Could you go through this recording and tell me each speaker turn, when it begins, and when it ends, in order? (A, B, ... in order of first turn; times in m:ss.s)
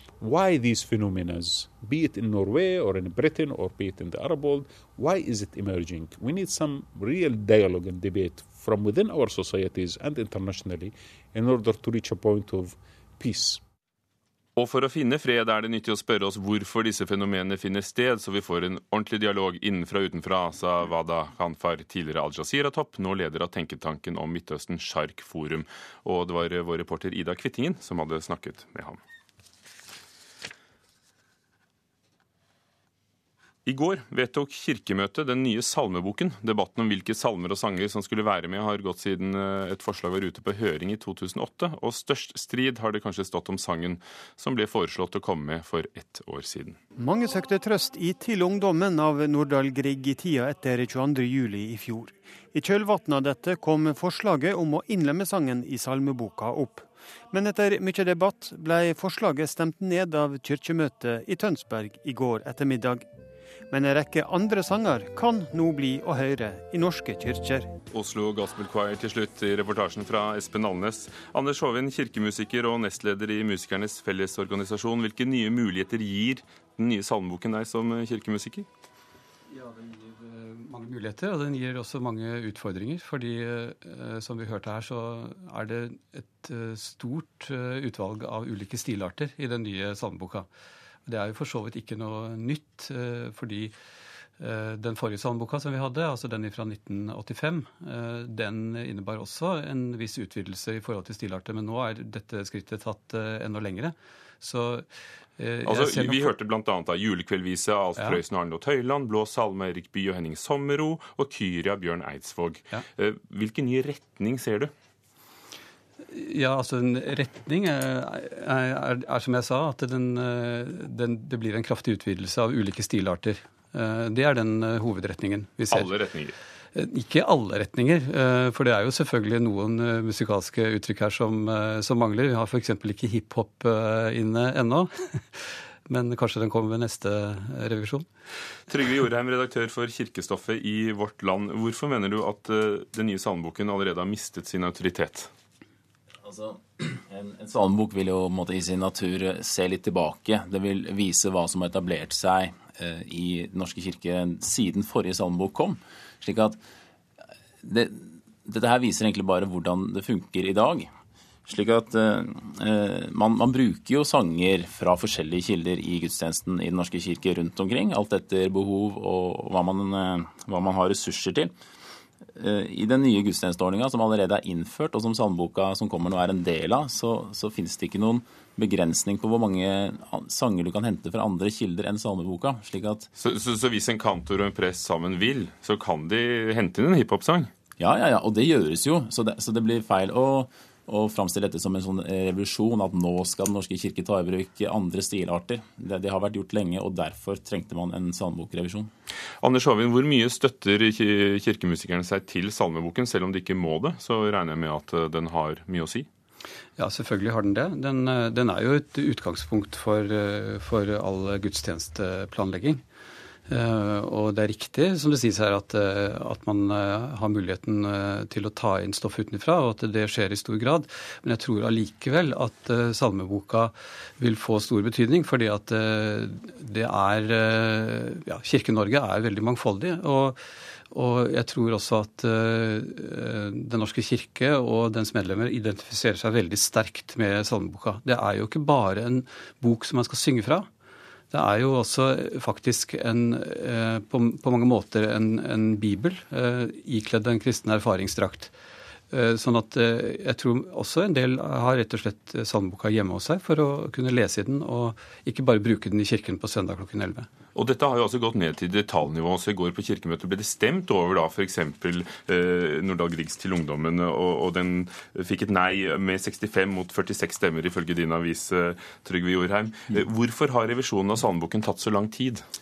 0:00.2-0:13.6 A
0:14.6-0:29.0 B
0:33.6-0:46.8 B
0:47.0-1:03.1 C
1:03.7-1:07.7 C
1:07.9-1:18.7 B
1:19.5-1:30.5 D
1:31.0-1:33.7 D
1:34.4-1:44.9 D
1:45.4-1:46.3 D
1:45.6-1:54.7 B
1:56.1-2:05.9 D
2:05.7-2:06.4 B
2:06.7-2:18.1 D
2:18.7-2:25.3 B
2:26.2-2:36.6 E
2:37.6-2:40.9 E
2:41.4-2:51.5 E
2:52.3-3:03.1 E
3:03.2-3:07.5 B
3:07.8-3:18.9 E
3:19.4-3:26.1 B
3:26.8-3:32.8 D
3:33.5-3:50.4 D
3:50.9-4:00.7 D
4:01.3-4:08.5 D
4:09.1-4:17.3 D
4:17.5-4:32.4 B